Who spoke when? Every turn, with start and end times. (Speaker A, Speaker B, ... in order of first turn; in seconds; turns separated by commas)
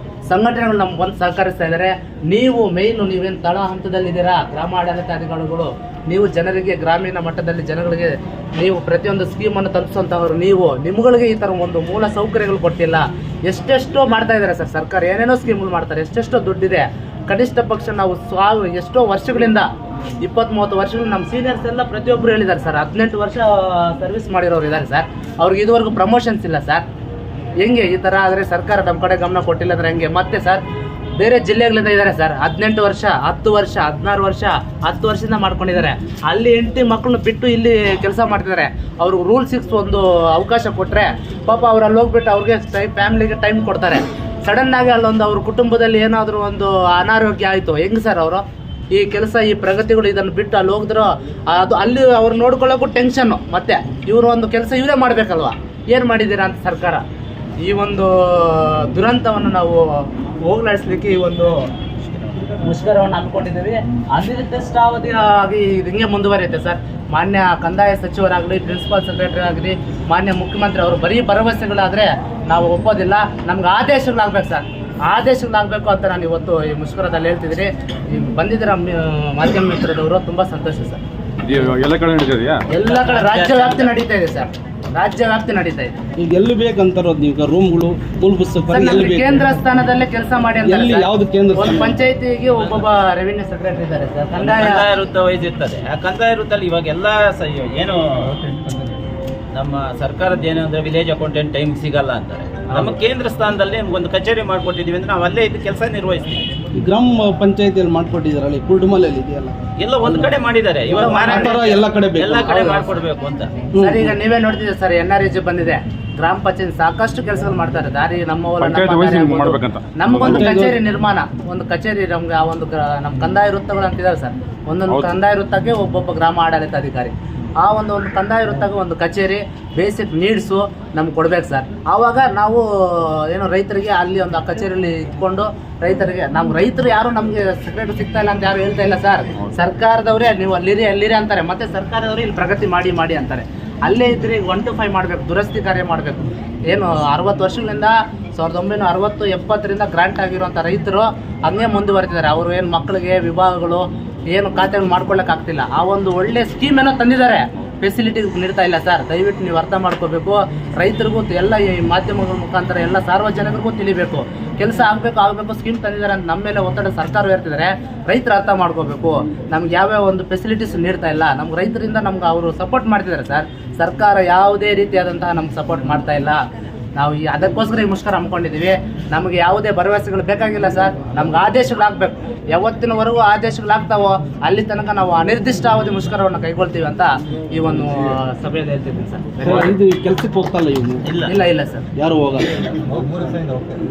Speaker A: 0.3-19.7, Speaker A: 20.2-26.9, Speaker A: 27.6-30.6, Speaker A: 31.2-57.0, Speaker A: 57.6-61.7, Speaker A: 62.6-81.0, Speaker B: 81.4-82.6, Speaker A: 82.7-86.0, Speaker C: 82.8-83.9, Speaker D: 86.2-89.5, Speaker A: 88.7-94.9, Speaker D: 90.6-92.0, Speaker C: 94.4-98.6, Speaker C: 99.5-106.5, Speaker D: 106.8-110.3, Speaker C: 109.8-113.7, Speaker A: 110.9-111.8, Speaker D: 111.3-112.6, Speaker A: 112.4-113.0, Speaker D: 113.7-114.1, Speaker A: 113.8-176.4, Speaker B: 118.6-120.5, Speaker D: 120.2-120.8, Speaker B: 124.9-125.2, Speaker A: 176.9-189.8, Speaker D: 189.4-191.1, Speaker C: 191.1-191.3, Speaker A: 191.2-191.8, Speaker D: 192.0-192.5